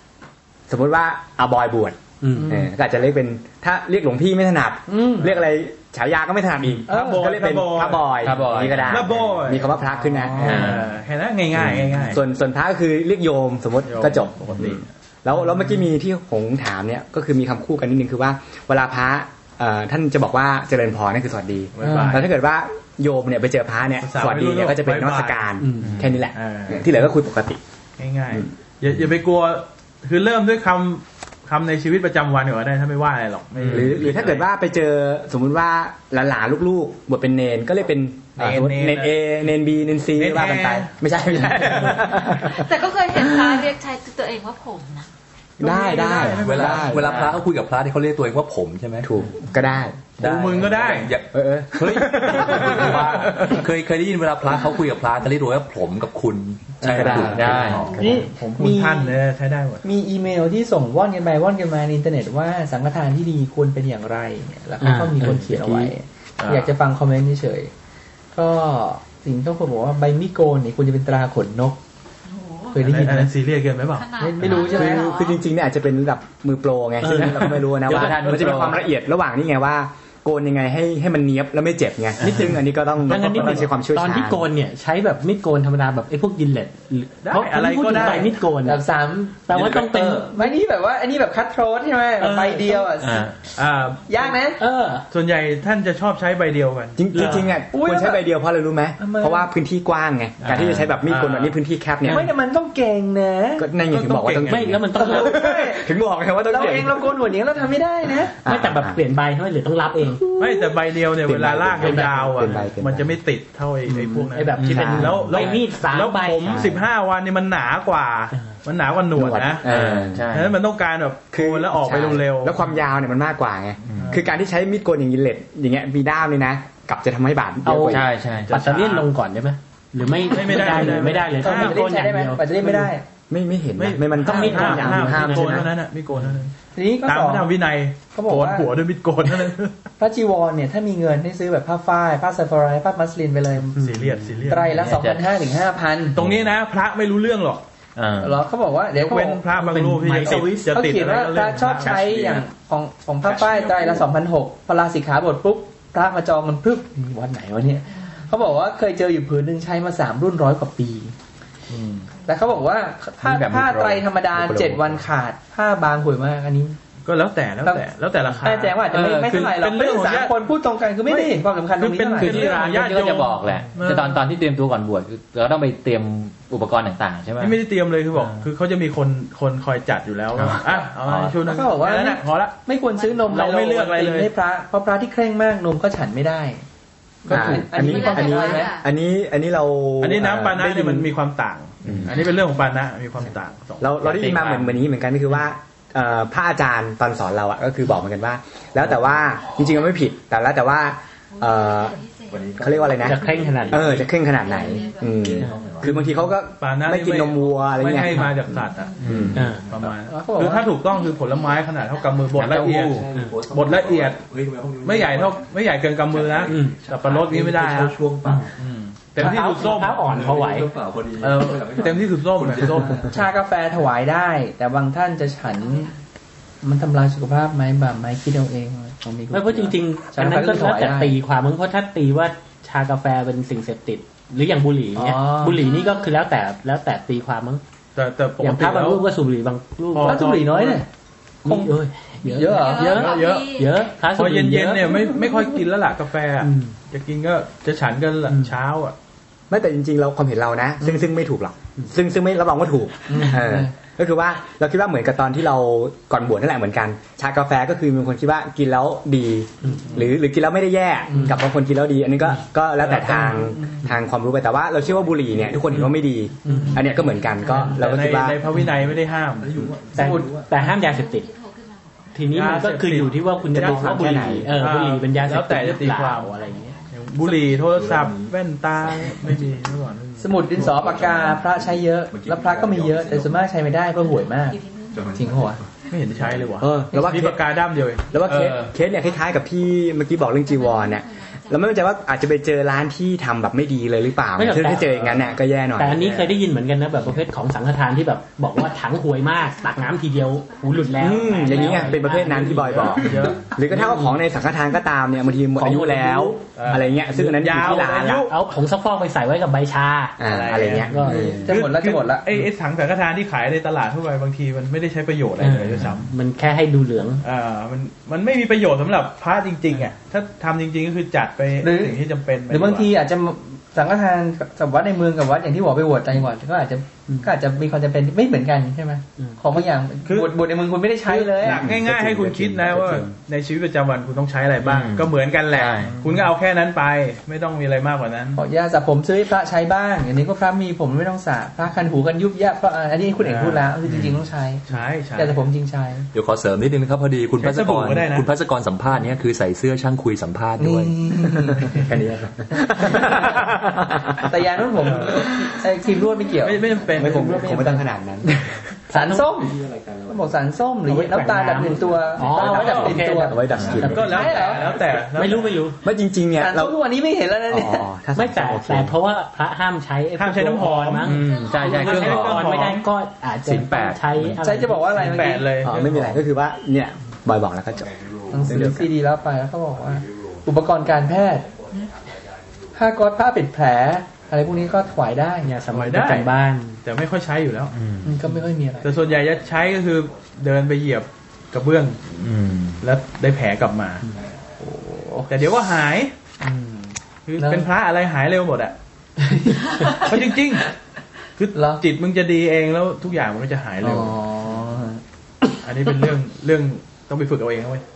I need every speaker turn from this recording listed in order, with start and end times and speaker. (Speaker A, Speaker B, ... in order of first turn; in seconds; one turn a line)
Speaker A: 0.7-10.8
Speaker B: 2.2-2.6
Speaker C: 2.4-2.7
Speaker C: 4.9-5.3
Speaker C: 6.9-7.3
Speaker D: 6.9-8.2
Speaker E: 8.2-9.2
Speaker D: 8.9-9.8
Speaker C: 10.0-10.7
Speaker D: 10.4-12.2
Speaker E: 10.4-10.9
Speaker A: 11.6-27.6
Speaker D: 13.8-14.9
Speaker D: 21.8-22.2
Speaker C: 21.8-22.2
Speaker D: 24.0-25.4
Speaker B: 25.6-25.9
Speaker E: 25.8-26.2
Speaker D: 26.3-26.9
Speaker D: 28.0-34.5
Speaker E: 33.6-34.1
Speaker A: 33.7-42.7
Speaker D: 38.4-39.1
Speaker D: 40.2-40.9
Speaker D: 41.4-42.2
Speaker F: 42.5-45.1
Speaker A: 45.6-47.3
Speaker C: 45.6-46.7
Speaker D: 45.6-47.0
Speaker G: 46.3-49.1
Speaker E: 47.0-47.3
Speaker A: 49.0-50.7
Speaker G: 50.2-58.1
Speaker D: 50.2-51.1
Speaker A: 51.3-53.6
Speaker D: 52.1-53.5
Speaker A: 56.8-57.9
Speaker E: 57.0-57.9
Speaker C: 57.8-59.2
Speaker D: 58.0-59.8
Speaker C: 59.8-67.7
Speaker B: 64.8-65.9
Speaker D: 66.4-66.7
Speaker C: 68.3-71.8
Speaker F: 72.3-72.8
Speaker C: 72.7-73.3
Speaker D: 72.8-74.1
Speaker F: 73.9-75.4
Speaker C: 74.2-75.1
Speaker A: 74.4-84.4
Speaker B: 77.0-78.5
Speaker E: 77.8-78.8
Speaker B: 82.2-88.8
Speaker D: 83.1-83.6
Speaker D: 87.2-88.3
Speaker C: 88.0-93.3
Speaker B: 89.5-90.5
Speaker B: 92.2-92.9
Speaker E: 93.0-93.4
Speaker D: 93.5-94.0
Speaker C: 94.1-94.6
Speaker B: 94.6-95.0
Speaker D: 95.1-97.0
Speaker A: 97.0-102.2
Speaker B: 97.1-97.5
Speaker C: 97.7-98.2
Speaker C: 99.0-99.5
Speaker E: 100.4-101.0
Speaker D: 101.0-101.6
Speaker C: 102.1-103.7
Speaker A: 103.6-107.1
Speaker D: 103.9-104.8
Speaker B: 104.5-105.4
Speaker C: 104.9-105.8
Speaker C: 106.5-108.3
Speaker A: 108.4-109.0
Speaker B: 108.5-110.2
Speaker D: 110.4-119.7
Speaker A: 111.2-113.2
Speaker B: 111.8-112.6
Speaker B: 113.9-116.7
Speaker E: 114.6-115.5
Speaker A: 114.7-115.2
Speaker A: 116.5-116.8
Speaker A: 119.1-120.3
Speaker E: 119.7-120.5
Speaker D: 120.3-122.6
Speaker A: 121.3-128.1
Speaker E: 123.9-124.1
Speaker D: 124.0-124.3
Speaker B: 127.6-132.9
Speaker E: 127.9-128.6
Speaker D: 128.5-129.1
Speaker D: 130.3-131.8
Speaker C: 130.5-133.0
Speaker A: 133.3-135.7
Speaker D: 133.8-136.5
Speaker B: 134.2-135.7
Speaker C: 136.7-137.5
Speaker D: 137.0-139.8
Speaker C: 138.1-138.7
Speaker C: 140.0-143.8
Speaker B: 143.8-144.3
Speaker D: 143.8-144.9
Speaker C: 144.5-146.2
Speaker E: 144.7-145.2
Speaker D: 146.2-147.6
Speaker E: 146.2-146.5
Speaker E: 147.9-148.4
Speaker C: 148.2-149.4
Speaker D: 148.9-152.4
Speaker B: 149.5-150.7
Speaker C: 150.2-161.1
Speaker G: 153.3-154.0
Speaker D: 161.7-162.1
Speaker C: 162.2-166.8
Speaker E: 163.2-165.0
Speaker D: 167.0-170.4
Speaker C: 168.4-172.6
Speaker E: 168.9-169.5
Speaker D: 171.1-174.2
Speaker E: 172.2-177.6
Speaker D: 177.4-182.6
Speaker E: 178.1-178.4
Speaker E: 180.3-181.3
Speaker C: 181.4-186.6
Speaker F: 182.9-183.3
Speaker D: 183.2-184.3
Speaker C: 187.2-188.7
Speaker A: 187.3-191.1
Speaker F: 187.7-188.8
Speaker D: 190.0-194.0
Speaker A: 191.8-192.1
Speaker F: 192.1-192.4
Speaker A: 193.8-202.0
Speaker E: 194.0-194.8
Speaker F: 201.3-202.5
Speaker G: 202.3-204.1
Speaker A: 202.6-208.2
Speaker B: 203.0-204.1
Speaker F: 203.2-205.8
Speaker G: 205.1-205.9
Speaker B: 205.4-205.9
Speaker D: 206.6-214.2
Speaker F: 208.8-209.2
Speaker E: 209.0-209.4
Speaker A: 209.0-209.4
Speaker G: 209.3-209.9
Speaker B: 209.3-209.7
Speaker C: 210.1-210.7
Speaker F: 210.8-212.5
Speaker E: 212.3-213.1
Speaker G: 212.6-215.5
Speaker D: 214.8-220.1
Speaker G: 216.1-218.5
Speaker B: 216.5-216.8
Speaker B: 219.2-220.7
Speaker C: 219.2-219.7
Speaker G: 219.8-223.3
Speaker D: 221.2-223.1
Speaker C: 223.1-225.9
Speaker F: 225.5-225.9
Speaker C: 226.6-231.1
Speaker B: 229.3-237.6
Speaker C: 234.9-235.7
Speaker F: 235.5-236.1
Speaker D: 237.9-239.0
Speaker B: 238.4-240.4
Speaker D: 239.9-240.8
Speaker C: 240.0-240.9
Speaker B: 241.4-245.6
Speaker C: 241.4-241.7
Speaker C: 242.3-242.9
Speaker F: 242.3-243.9
Speaker D: 242.9-243.5
Speaker D: 244.1-248.9
Speaker B: 246.4-246.7
Speaker A: 249.5-268.4
Speaker C: 253.1-253.7
Speaker D: 262.8-263.5
Speaker G: 264.8-265.6
Speaker B: 266.4-266.9
Speaker C: 266.5-266.7
Speaker F: 267.1-267.6
Speaker D: 267.5-269.7
Speaker G: 269.4-270.5
Speaker B: 269.9-271.3
Speaker C: 269.9-270.3
Speaker F: 270.6-272.4
Speaker B: 272.1-276.8
Speaker D: 272.3-276.4
Speaker A: 273.5-274.5
Speaker D: 276.9-280.1
Speaker G: 277.2-283.4
Speaker C: 280.2-284.6
Speaker F: 284.0-285.0
Speaker G: 284.9-286.6
Speaker C: 285.1-285.6
Speaker D: 285.9-288.1
Speaker A: 286.6-287.4
Speaker A: 288.1-296.2
Speaker E: 288.2-288.7
Speaker F: 290.4-291.8
Speaker B: 294.4-304.2
Speaker F: 299.3-301.9
Speaker A: 301.0-308.3
Speaker D: 302.8-303.5
Speaker B: 305.6-306.4
Speaker D: 306.6-308.3
Speaker B: 307.1-310.2
Speaker A: 310.2-311.5
Speaker D: 310.3-316.1
Speaker B: 310.9-311.4
Speaker C: 311.4-312.2
Speaker B: 315.4-317.2
Speaker D: 317.2-322.9
Speaker C: 321.6-331.6
Speaker D: 330.1-330.4
Speaker D: 331.0-338.4
Speaker A: 331.4-333.1
Speaker E: 334.6-336.0
Speaker C: 338.4-344.6
Speaker D: 343.2-343.7
Speaker D: 344.7-345.4
Speaker C: 345.1-346.1
Speaker G: 346.1-350.9
Speaker D: 347.4-348.3
Speaker C: 350.6-351.8
Speaker A: 351.5-354.2
Speaker C: 352.5-353.5
Speaker C: 354.2-357.8
Speaker D: 354.8-355.2
Speaker D: 356.4-357.7
Speaker A: 356.9-358.4
Speaker C: 358.9-363.4
Speaker B: 358.9-359.3
Speaker G: 359.4-360.5
Speaker B: 360.9-364.3
Speaker G: 361.9-362.5
Speaker D: 362.6-363.0
Speaker A: 362.6-364.2
Speaker G: 363.3-365.0
Speaker D: 363.8-365.6
Speaker C: 364.0-364.7
Speaker B: 365.1-365.8
Speaker A: 365.8-366.8
Speaker C: 366.4-367.9
Speaker A: 367.5-368.9
Speaker B: 368.1-375.2
Speaker D: 370.2-372.9
Speaker E: 371.0-372.6
Speaker F: 371.2-371.7
Speaker E: 373.4-374.4
Speaker C: 374.4-375.5
Speaker D: 374.9-376.2
Speaker A: 375.6-377.9
Speaker G: 377.8-378.6
Speaker C: 378.3-381.4
Speaker A: 378.4-378.9
Speaker G: 379.9-381.7
Speaker C: 382.7-385.5
Speaker B: 385.4-386.8
Speaker D: 385.7-386.3
Speaker D: 386.8-387.7
Speaker E: 387.7-388.2
Speaker C: 388.0-388.9
Speaker D: 388.8-392.0
Speaker E: 392.2-392.8
Speaker D: 392.8-394.0
Speaker C: 394.6-395.3
Speaker D: 395.3-396.1
Speaker C: 396.4-397.7
Speaker D: 397.2-398.7
Speaker C: 399.2-400.1
Speaker D: 399.9-400.7
Speaker D: 401.4-404.1
Speaker C: 401.5-401.8
Speaker C: 403.8-405.0
Speaker D: 405.6-407.8